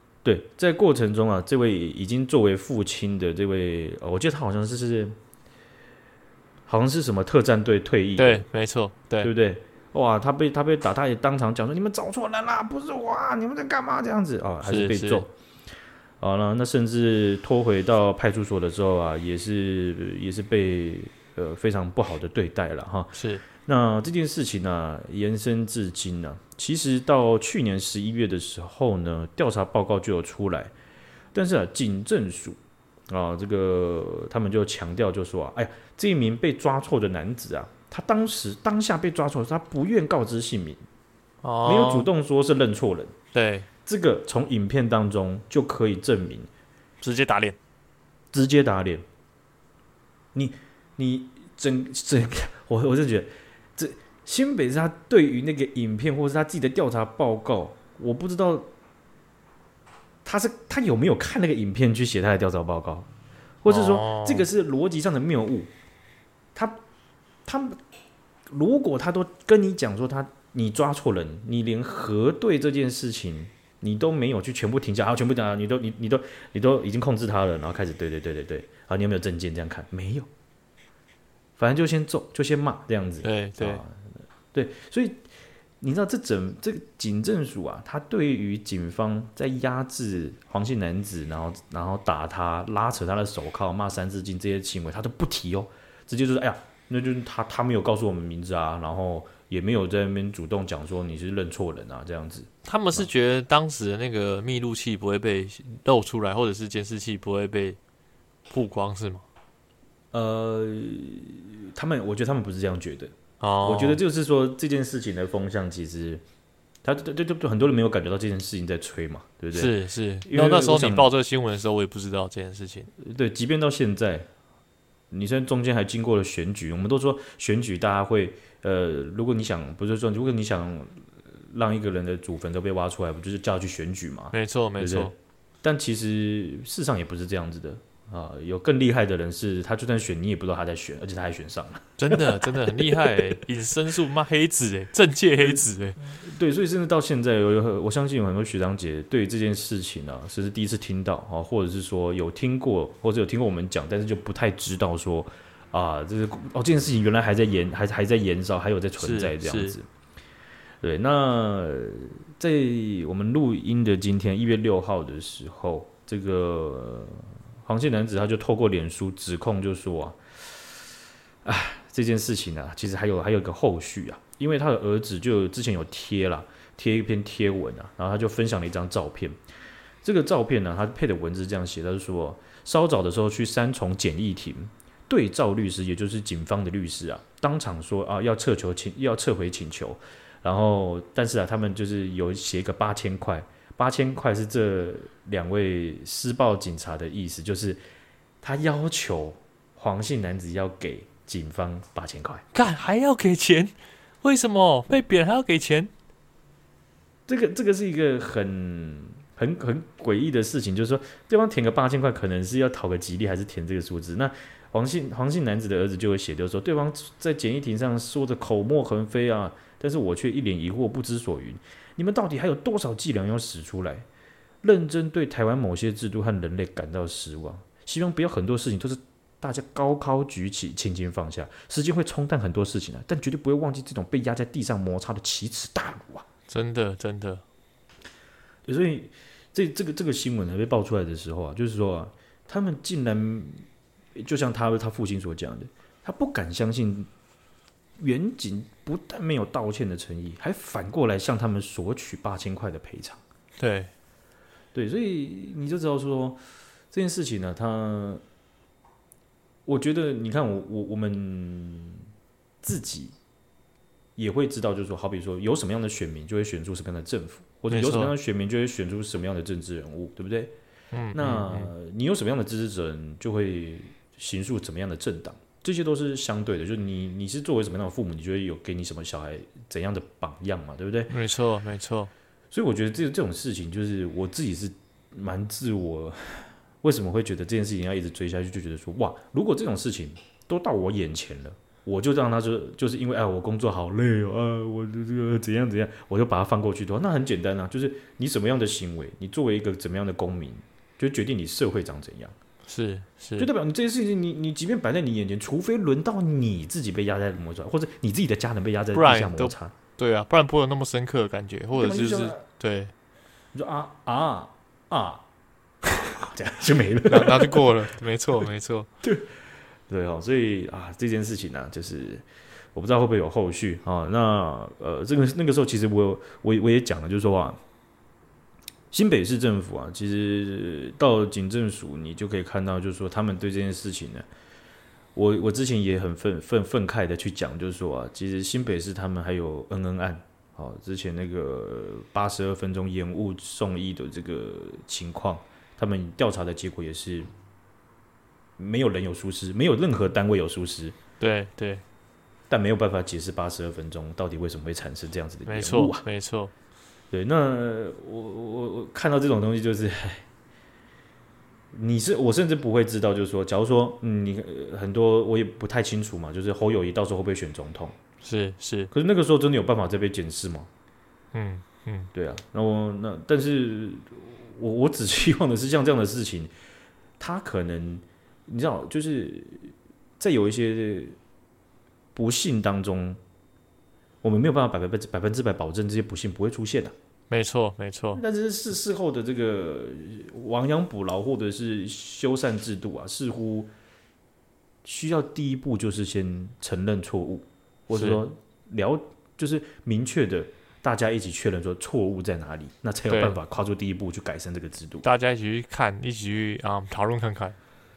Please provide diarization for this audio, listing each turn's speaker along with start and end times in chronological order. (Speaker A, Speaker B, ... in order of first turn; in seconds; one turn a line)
Speaker A: 0.2-5.2
Speaker A: 6.7-8.4
Speaker B: 8.2-9.3
Speaker A: 9.2-15.3
Speaker B: 14.6-15.2
Speaker A: 16.2-30.7
Speaker B: 23.1-23.4
Speaker A: 31.3-32.6
Speaker A: 33.1-40.8
Speaker B: 41.4-42.1
Speaker A: 41.6-43.1
Speaker B: 43.3-43.7
Speaker A: 43.9-46.5
Speaker B: 47.0-47.6
Speaker A: 48.3-49.0
Speaker A: 50.3-58.7
Speaker A: 60.2-63.1
Speaker A: 63.6-65.7
Speaker B: 63.7-64.5
Speaker A: 67.5-67.8
Speaker A: 68.5-80.3
Speaker A: 81.6-85.3
Speaker B: 83.2-83.8
Speaker A: 85.8-103.1
Speaker B: 102.7-107.8
Speaker B: 108.5-109.2
Speaker A: 110.1-116.2
Speaker B: 113.4-114.0
Speaker A: 116.8-119.7
Speaker B: 119.5-122.9
Speaker A: 120.3-121.1
Speaker A: 123.0-124.3
Speaker A: 125.1-135.1
Speaker B: 134.3-135.1
Speaker A: 135.6-143.2
Speaker B: 142.0-146.0
Speaker A: 146.0-159.9
Speaker B: 159.0-159.8
Speaker A: 160.8-170.2
Speaker A: 171.4-179.4
Speaker A: 180.0-197.8
Speaker A: 198.4-202.4
Speaker B: 202.5-205.9
Speaker A: 207.3-224.1
Speaker A: 224.6-236.3
Speaker B: 236.5-237.4
Speaker A: 238.7-243.6
Speaker A: 244.2-247.1
Speaker A: 248.0-253.2
Speaker B: 253.6-253.9
Speaker A: 254.7-256.4
Speaker A: 256.9-258.2
Speaker A: 259.7-262.1
Speaker A: 262.6-263.1
Speaker A: 264.2-270.5
Speaker B: 267.7-268.1
Speaker B: 270.9-271.7
Speaker A: 271.1-281.1
Speaker B: 281.1-282.1
Speaker A: 282.5-302.4
Speaker B: 302.7-303.5
Speaker A: 303.4-309.7
Speaker B: 308.9-312.9
Speaker A: 311.7-312.4
Speaker A: 313.5-315.2
Speaker A: 315.8-317.7
Speaker B: 317.1-318.9
Speaker A: 319.0-319.4
Speaker A: 319.9-327.6
Speaker A: 328.9-334.3
Speaker A: 335.1-347.3
Speaker A: 348.6-351.0
Speaker B: 351.2-351.8
Speaker A: 352.5-356.0
Speaker B: 355.5-356.5
Speaker A: 357.1-360.3
Speaker A: 361.7-368.0
Speaker B: 368.2-368.9
Speaker A: 368.9-370.7
Speaker B: 371.3-372.1
Speaker A: 372.1-376.5
Speaker A: 377.2-381.2
Speaker A: 382.1-383.2
Speaker A: 384.2-386.9
Speaker B: 387.3-388.2
Speaker A: 388.1-393.7
Speaker A: 394.8-405.1
Speaker B: 397.9-398.2
Speaker B: 403.1-403.4
Speaker B: 405.0-407.6